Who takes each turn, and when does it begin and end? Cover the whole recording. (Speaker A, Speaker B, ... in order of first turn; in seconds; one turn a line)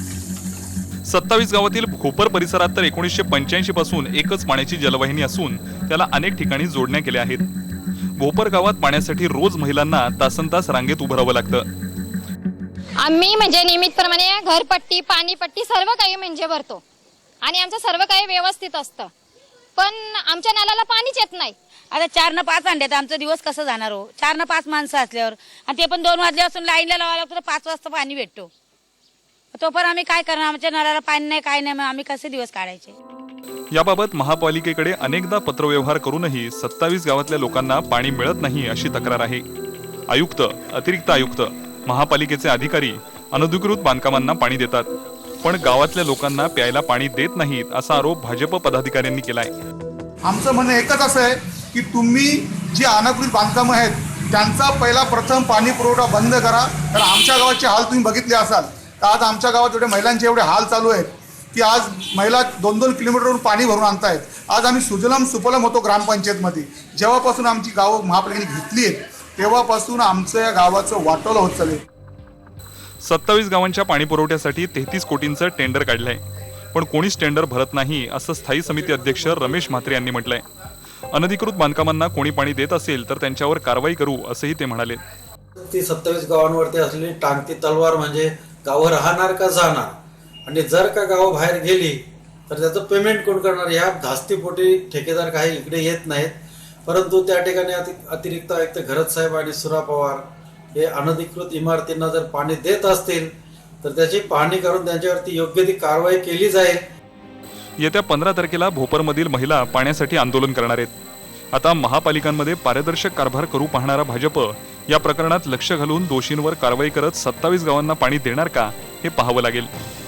Speaker A: 1.0-7.5
Speaker A: 8.2-11.7
Speaker B: 13.0-16.8
Speaker B: 17.4-19.1
Speaker B: 19.8-21.5
Speaker C: 21.9-28.5
Speaker C: 29.5-33.0
Speaker A: 33.7-39.4
Speaker A: 40.1-49.5
Speaker D: 50.2-71.8
Speaker A: 73.0-76.2
Speaker A: 76.7-80.4
Speaker A: 81.1-85.0
Speaker E: 85.6-89.9
Speaker E: 90.5-103.3
Speaker E: 103.8-106.8
Speaker A: 107.8-110.9
Speaker A: 111.5-119.7